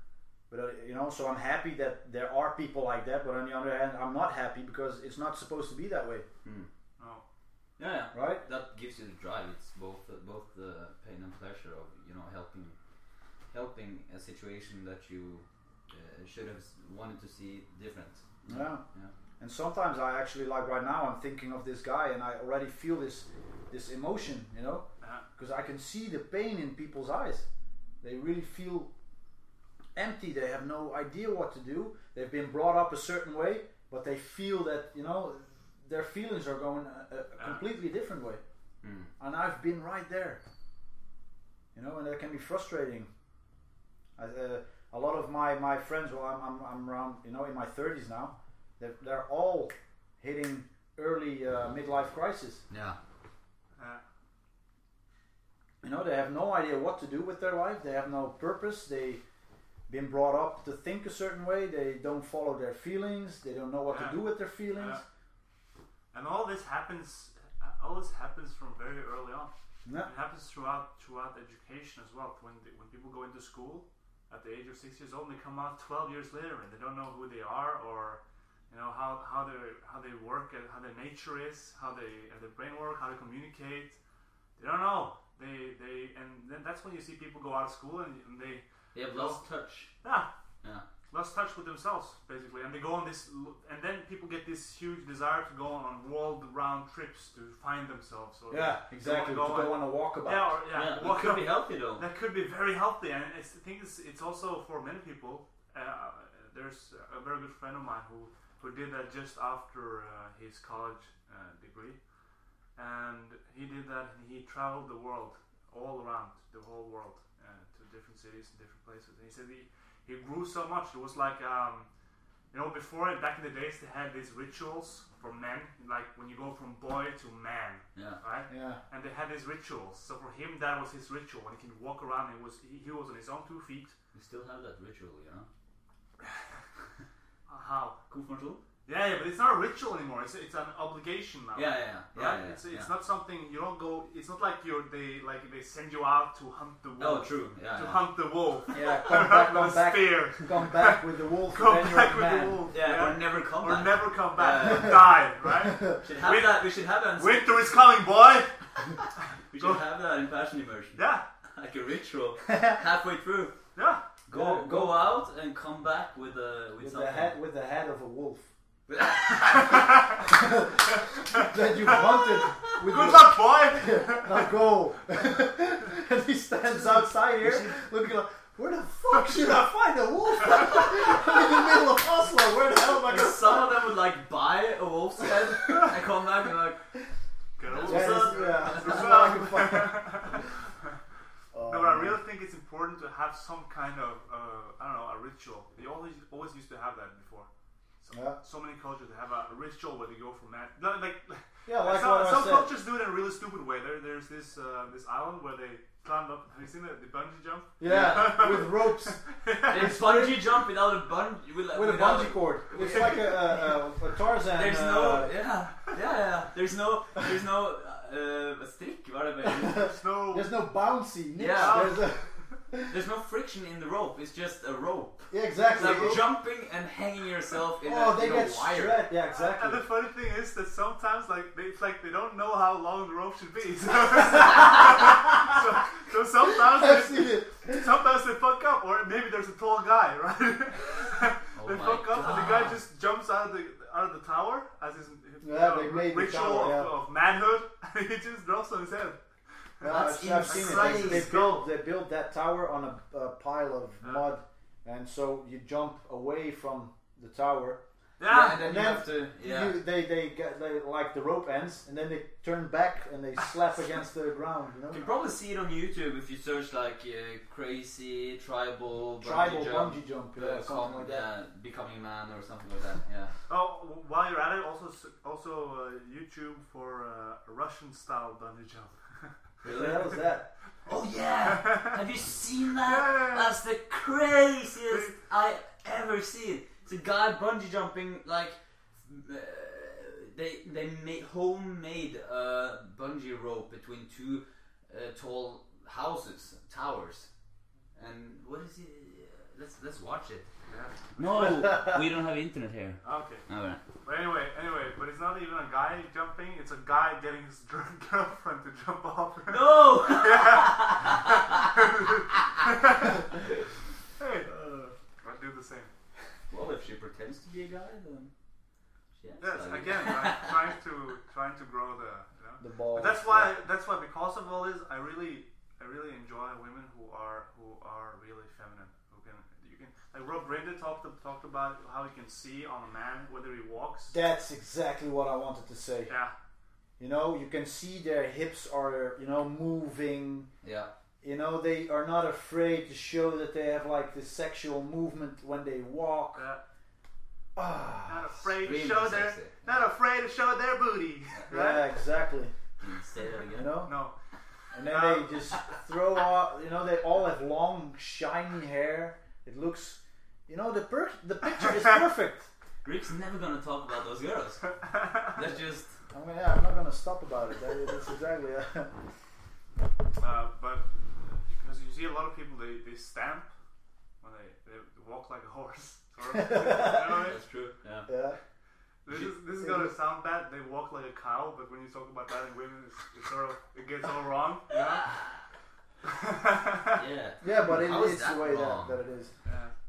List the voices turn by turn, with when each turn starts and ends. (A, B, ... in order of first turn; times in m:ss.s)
0:00.5-0:06.3 A
0:06.4-0:06.7 B
0:07.0-0:07.2 C
0:07.8-0:12.8 B
0:08.1-0:08.4 A
0:13.5-0:19.1 B
0:18.5-0:18.8 A
0:19.4-0:24.9 A
0:25.4-0:27.5 A
0:28.0-0:28.9 A
0:30.0-0:38.4 A
0:38.8-0:39.1 B
0:39.2-0:40.4 A
0:41.8-0:43.1 A
0:44.2-0:52.6 A
0:52.7-0:53.0 B
0:53.8-0:54.0 C
0:55.8-0:59.2 A
0:59.9-1:05.0 A
1:03.9-1:05.0 C
1:06.1-1:09.5 C
1:10.0-1:24.0 C
1:24.6-1:29.4 C
1:28.9-1:29.9 B
1:30.0-1:30.3 C
1:31.1-1:52.0 C
1:38.5-1:40.6 A
1:40.7-1:42.0 B
1:52.8-2:01.9 C
2:02.5-2:14.0 C
2:08.0-2:08.2 B
2:08.5-2:08.8 A
2:14.1-2:15.5 B
2:17.5-2:18.0 C
2:18.1-2:18.6 B
2:18.9-2:38.5 C
2:21.6-2:22.9 B
2:27.0-2:28.0 B
2:28.7-2:32.6 A
2:32.7-2:35.1 B
2:35.6-2:36.0 A
2:36.0-2:37.9 B
2:39.5-2:43.6 B
2:41.0-2:41.2 C
2:42.5-2:42.8 A
2:43.8-2:44.0 C
2:44.3-2:47.4 B
2:44.3-2:45.1 A
2:46.8-2:48.5 A
2:48.9-2:49.9 B
2:50.2-3:03.7 A
2:52.7-2:54.5 C
3:03.0-3:06.8 B
3:07.6-3:10.9 C
3:07.7-3:09.3 B
3:07.8-3:10.5 A
3:11.5-3:12.2 A
3:11.7-3:17.5 C
3:18.0-3:30.0 C
3:18.1-3:18.4 A
3:21.7-3:22.7 A
3:27.8-3:30.4 A
3:27.8-3:28.4 B
3:29.7-3:33.5 B
3:31.7-3:35.3 A
3:32.7-3:33.5 C
3:34.5-3:39.9 B
3:39.5-3:42.9 A
3:40.0-3:40.5 C
3:41.4-3:41.9 B
3:41.6-3:42.1 C
3:42.9-3:49.0 B
3:45.3-3:46.2 A
3:45.8-3:46.2 C
3:47.8-3:49.8 A
3:49.3-4:09.2 C
3:56.6-3:57.8 A
4:01.6-4:02.8 B
4:05.4-4:06.9 A
4:09.8-4:17.8 A
4:09.8-4:11.3 B
4:10.4-4:11.7 C
4:18.2-4:18.6 C
4:18.2-4:19.8 B
4:18.5-4:25.0 A
4:24.9-4:33.3 B
4:29.2-4:31.3 A
4:33.5-4:39.4 C
4:39.6-4:40.2 B
4:39.6-4:40.5 A
4:40.9-4:57.3 B
4:41.4-4:42.0 C
4:42.8-4:43.5 C
4:58.0-5:00.5 B
5:00.7-5:01.0 C
5:01.2-5:03.8 B
5:03.0-5:03.5 C
5:04.0-5:13.2 C
5:09.5-5:11.8 B
5:14.2-5:14.5 C
5:14.5-5:14.9 B
5:15.2-5:15.9 C
5:16.5-5:18.3 B
5:19.2-5:20.7 B
5:19.4-5:34.1 C
5:22.6-5:23.5 A
5:34.1-5:36.1 A
5:36.1-5:36.3 C
5:37.0-5:40.5 A
5:40.6-5:40.9 B
5:41.2-5:46.5 A
5:46.4-5:46.6 C
5:47.6-5:48.3 A
5:48.1-5:51.9 C
5:48.6-5:49.8 B
5:51.5-5:52.5 A
5:52.8-5:53.8 B
5:53.6-5:53.9 A
5:53.8-5:54.2 C
5:54.7-6:02.5 A
5:54.8-5:55.4 C
6:02.8-6:05.9 B
6:06.1-6:08.9 A
6:10.2-6:13.5 C
6:14.2-6:17.4 C
6:16.3-6:17.3 A
6:17.2-6:18.1 B
6:18.1-6:18.4 A
6:19.0-6:25.1 C
6:19.6-6:19.9 A
6:24.9-6:25.4 B
6:26.0-6:27.0 C
6:26.9-6:29.0 B
6:27.4-6:29.3 A
6:29.4-6:29.7 C